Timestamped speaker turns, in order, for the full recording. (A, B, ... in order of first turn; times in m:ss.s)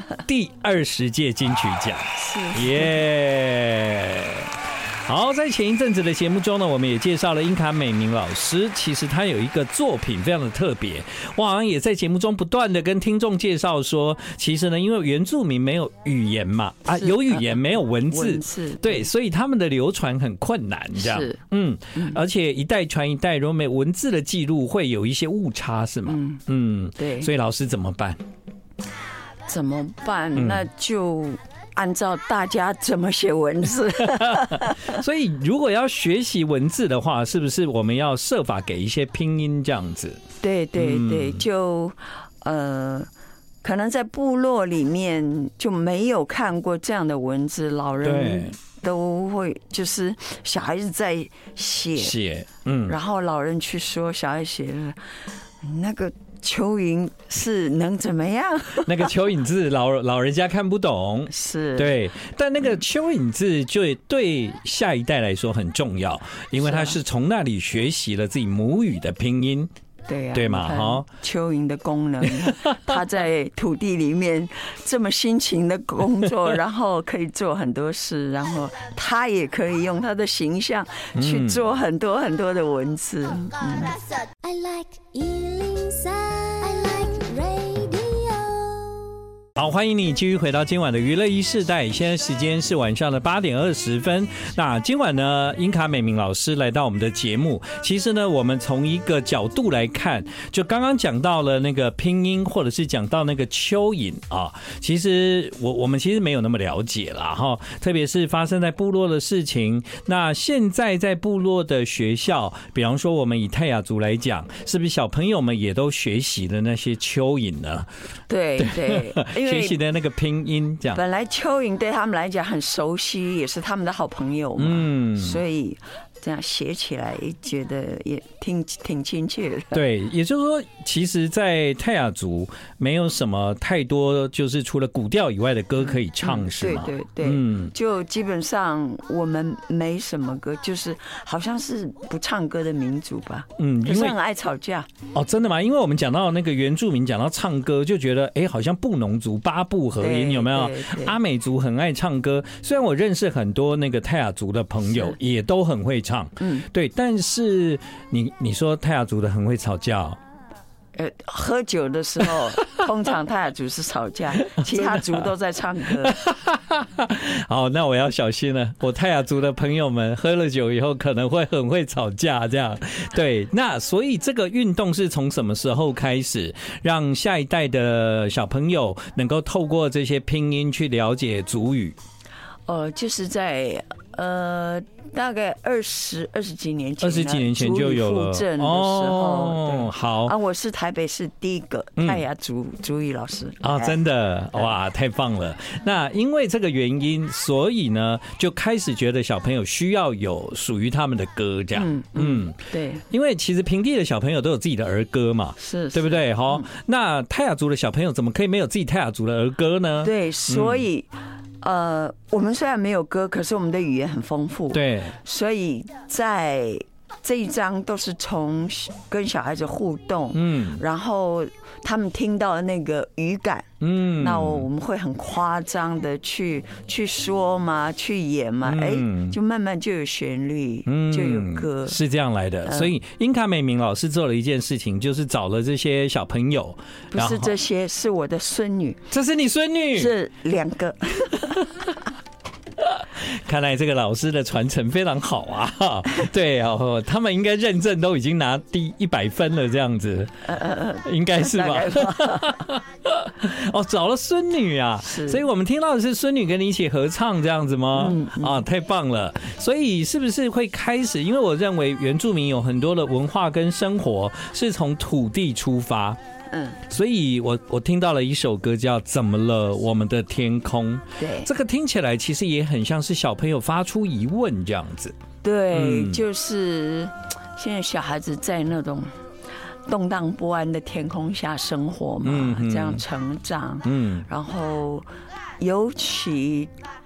0:00.1-0:28.2 A
0:02.2-0:03.0 B
0:16.9-0:17.6 B
0:18.1-0:19.1 B
0:21.0-0:21.4 B
0:22.0-0:22.2 B
0:26.1-0:26.4 B
0:27.0-0:27.3 B
0:29.5-0:35.0 B
0:30.4-0:30.6 A
0:34.2-0:40.2 A
0:40.4-0:43.1 B
0:40.8-0:41.4 A
0:43.6-0:52.2 B
0:48.0-0:48.6 A
0:52.0-0:53.0 A
0:52.9-0:55.1 B
0:55.6-0:59.1 B
0:58.8-1:09.7 A
1:01.3-1:02.0 B
1:06.6-1:07.0 B
1:10.1-1:24.0 B
1:10.3-1:11.1 A
1:21.2-1:21.6 A
1:24.4-1:29.0 C
1:29.6-1:57.9 A
1:58.3-1:59.8 B
1:58.6-2:01.0 A
2:00.9-2:09.8 B
2:04.6-2:05.4 A
2:09.7-2:17.7 A
2:15.8-2:24.9 B
2:23.6-2:24.2 A
2:25.1-2:40.2 A
2:30.0-2:31.2 B
2:34.9-2:35.2 B
2:36.4-2:36.7 B
2:41.0-2:46.2 B
2:44.4-2:45.3 A
2:46.0-3:02.0 A
3:02.7-3:14.0 B
3:07.0-3:10.3 A
3:12.0-3:12.2 A
3:13.6-3:30.8 A
3:21.8-3:23.0 B
3:25.6-3:26.7 B
3:30.0-3:31.1 B
3:31.6-3:52.0 B
3:34.7-3:35.2 A
3:40.3-3:40.8 A
3:43.8-3:44.7 A
3:48.6-3:49.4 A
3:50.9-3:57.5 A
3:52.6-3:52.9 B
3:57.1-3:59.0 B
3:59.1-4:00.1 A
4:00.0-4:01.9 B
4:02.8-4:10.5 A
4:10.4-4:12.7 B
4:11.0-4:26.2 A
4:15.0-4:15.4 B
4:17.9-4:18.6 B
4:26.5-4:26.8 B
4:26.9-4:35.2 A
4:31.2-4:31.5 B
4:35.4-4:39.1 B
4:35.7-4:36.2 A
4:39.9-4:45.1 B
4:42.2-4:43.0 A
4:43.8-4:44.3 A
4:45.6-4:46.7 B